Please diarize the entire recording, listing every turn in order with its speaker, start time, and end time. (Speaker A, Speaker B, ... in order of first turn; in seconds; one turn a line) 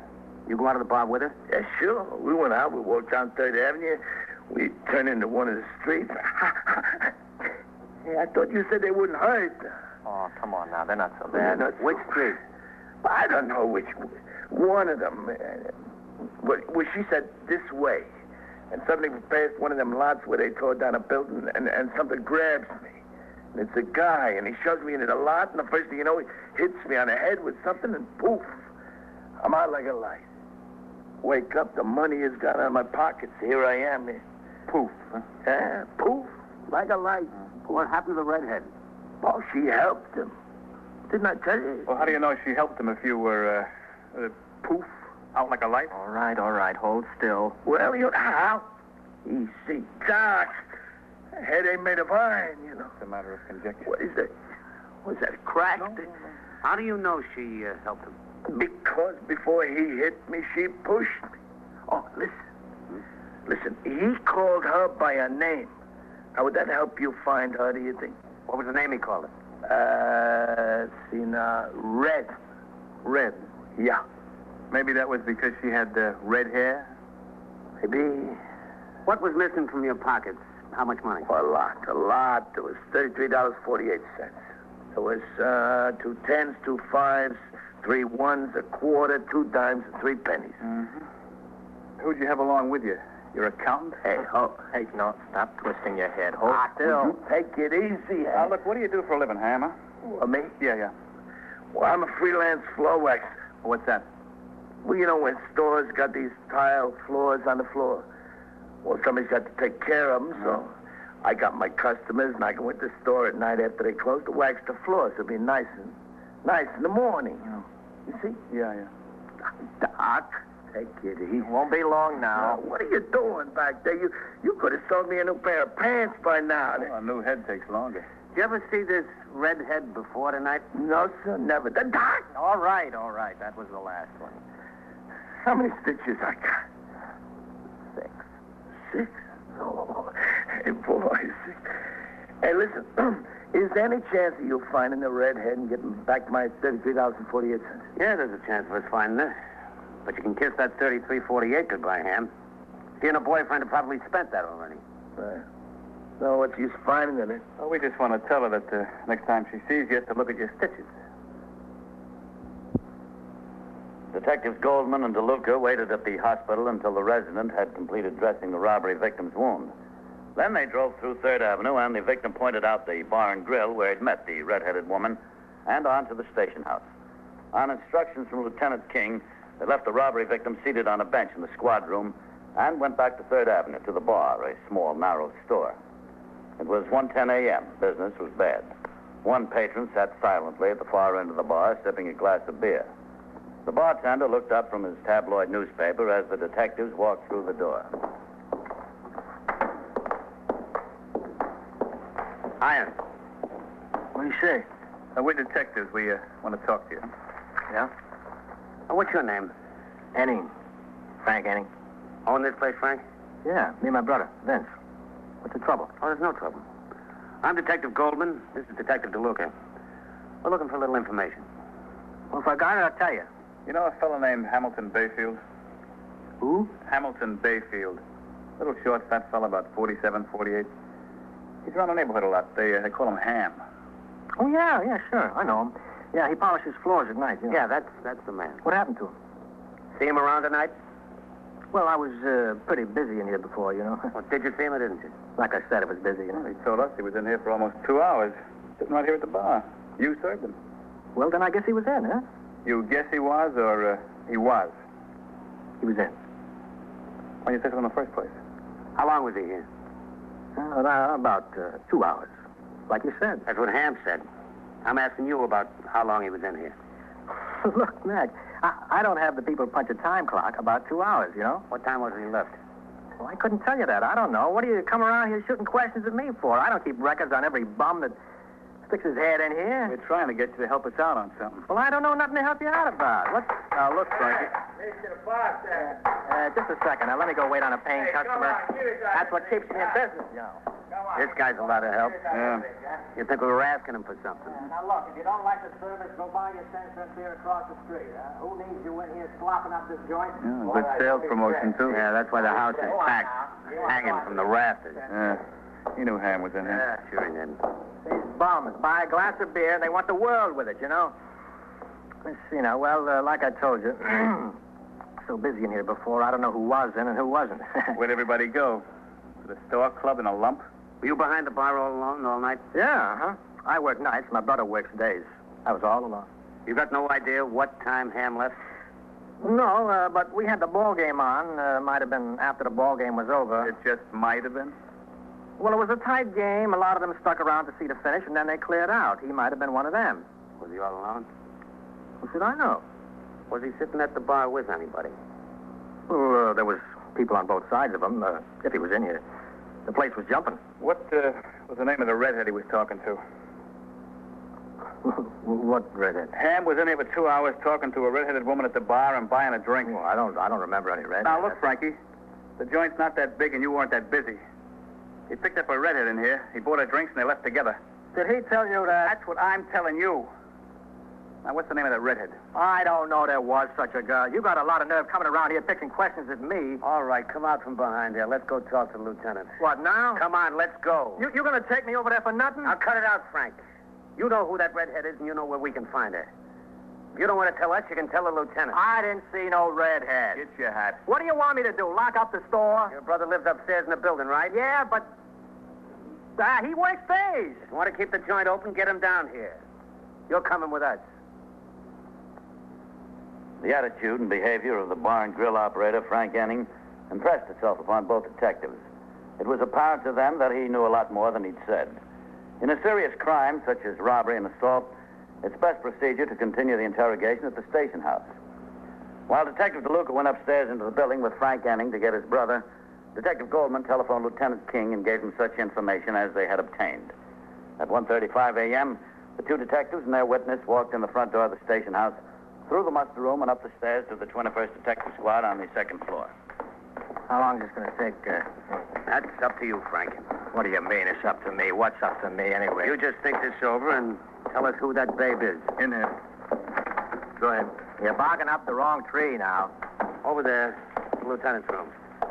Speaker A: 0.5-1.4
Speaker B: 1.5-7.1
Speaker B: 8.0-9.8
Speaker C: 10.1-11.6
Speaker B: 11.3-12.4
Speaker A: 11.8-12.3
Speaker B: 13.0-15.7
Speaker B: 16.4-18.1
Speaker B: 18.7-23.0
Speaker B: 23.5-28.6
Speaker B: 29.4-30.2
Speaker B: 31.2-34.2
Speaker D: 34.7-35.2
Speaker B: 35.4-37.9
Speaker A: 37.7-38.7
Speaker B: 39.2-40.3
Speaker B: 41.1-42.1
Speaker D: 41.9-45.9
Speaker C: 45.9-47.5
Speaker B: 47.6-48.7
Speaker B: 49.2-50.6
Speaker B: 51.4-52.9
Speaker D: 53.0-54.0
Speaker B: 53.9-54.3
Speaker B: 55.0-56.1
Speaker A: 56.6-58.1
Speaker B: 58.5-61.3
Speaker B: 61.9-62.4
Speaker B: 63.5-65.7
Speaker B: 66.3-68.2
Speaker A: 68.5-69.3
Speaker B: 69.7-72.4
Speaker D: 73.0-73.4
Speaker B: 73.8-74.0
Speaker D: 74.7-76.9
Speaker B: 77.8-78.4
Speaker A: 79.1-81.3
Speaker B: 81.3-84.4
Speaker B: 85.0-90.6
Speaker D: 90.6-91.0
Speaker D: 92.0-94.0
Speaker A: 94.0-94.6
Speaker C: 94.7-97.1
Speaker B: 97.1-98.5
Speaker D: 98.3-99.7
Speaker B: 100.0-100.5
Speaker D: 100.6-100.9
Speaker B: 101.7-103.3
Speaker D: 103.6-104.1
Speaker B: 104.8-108.1
Speaker B: 108.8-110.7
Speaker B: 111.2-118.4
Speaker D: 118.5-118.9
Speaker B: 119.8-121.5
Speaker C: 121.4-122.6
Speaker B: 122.3-126.9
Speaker D: 126.8-128.1
Speaker A: 128.3-130.7
Speaker B: 130.7-132.3
Speaker C: 132.3-134.4
Speaker B: 135.4-136.6
Speaker B: 138.9-141.6
Speaker B: 142.4-147.9
Speaker A: 148.0-149.3
Speaker A: 150.1-152.3
Speaker A: 153.0-154.8
Speaker B: 155.2-155.4
Speaker B: 156.2-157.4
Speaker D: 157.6-160.9
Speaker E: 164.1-169.7
Speaker E: 170.3-176.9
Speaker E: 177.5-185.8
Speaker E: 186.6-192.9
Speaker E: 193.7-197.9
Speaker A: 202.6-203.0
Speaker C: 204.2-204.7
Speaker D: 205.2-207.1
Speaker A: 208.9-209.5
Speaker C: 210.2-210.5
Speaker C: 211.2-211.7
Speaker A: 212.3-213.0
Speaker C: 213.4-214.7
Speaker C: 215.4-215.9
Speaker A: 216.0-216.6
Speaker A: 217.4-219.5
Speaker A: 220.4-221.5
Speaker C: 222.3-223.3
Speaker D: 223.7-225.4
Speaker C: 226.4-226.7
Speaker D: 226.8-228.0
Speaker D: 228.6-230.7
Speaker D: 231.7-233.6
Speaker C: 234.4-237.6
Speaker A: 237.5-238.6
Speaker C: 238.6-239.2
Speaker A: 239.9-240.7
Speaker C: 241.7-244.1
Speaker A: 244.1-245.1
Speaker C: 245.4-246.4
Speaker D: 246.3-250.6
Speaker C: 251.2-252.2
Speaker D: 252.7-254.7
Speaker C: 255.8-256.1
Speaker D: 257.4-258.3
Speaker A: 259.0-259.7
Speaker C: 260.6-262.3
Speaker C: 262.9-263.4
Speaker A: 263.5-264.2
Speaker A: 264.9-266.8
Speaker C: 267.5-271.6
Speaker A: 271.7-272.6
Speaker C: 273.2-278.1
Speaker C: 278.9-279.9
Speaker D: 279.9-281.7
Speaker C: 281.7-283.6
Speaker D: 283.7-284.6
Speaker C: 285.7-290.6
Speaker A: 291.1-292.3
Speaker D: 292.3-292.7
Speaker A: 293.1-294.6
Speaker C: 294.6-300.7
Speaker D: 300.4-302.0
Speaker A: 301.9-305.0
Speaker D: 305.1-305.4
Speaker D: 306.0-306.9
Speaker A: 306.7-307.6
Speaker C: 308.1-311.1
Speaker C: 312.2-314.6
Speaker C: 315.2-318.0
Speaker D: 317.9-318.8
Speaker D: 319.4-320.6
Speaker A: 321.0-322.6
Speaker C: 322.7-326.3
Speaker A: 326.7-328.6
Speaker C: 329.4-333.7
Speaker D: 333.6-334.7
Speaker C: 335.6-340.2
Speaker A: 340.6-341.3
Speaker C: 342.2-342.8
Speaker A: 343.5-345.1
Speaker C: 346.1-349.2
Speaker C: 349.9-350.6
Speaker D: 350.8-353.2
Speaker C: 355.0-356.3
Speaker D: 356.3-360.0
Speaker C: 359.9-361.6
Speaker D: 361.2-362.0
Speaker D: 362.6-364.4
Speaker D: 365.3-367.8
Speaker C: 368.1-369.2
Speaker D: 368.9-370.3
Speaker D: 371.4-372.4
Speaker C: 372.5-376.8
Speaker A: 376.8-379.6
Speaker C: 379.6-380.2
Speaker A: 380.1-381.2
Speaker C: 381.2-382.8
Speaker A: 382.6-383.6
Speaker A: 384.2-386.3
Speaker A: 387.1-388.8
Speaker C: 388.7-390.4
Speaker D: 390.4-391.0
Speaker C: 391.1-392.9
Speaker A: 392.9-394.5
Speaker C: 394.5-395.1
Speaker C: 396.4-397.7
Speaker A: 397.7-399.6
Speaker A: 400.3-401.0
Speaker E: 403.6-408.8
Speaker E: 409.4-412.0
Speaker E: 412.6-418.3
Speaker E: 419.3-427.1
Speaker E: 427.8-436.3
Speaker C: 437.3-438.5
Speaker A: 439.1-440.3
Speaker C: 440.5-442.9
Speaker A: 442.8-445.7
Speaker D: 445.8-446.1
Speaker D: 447.4-447.7
Speaker C: 448.0-449.7
Speaker A: 450.2-451.9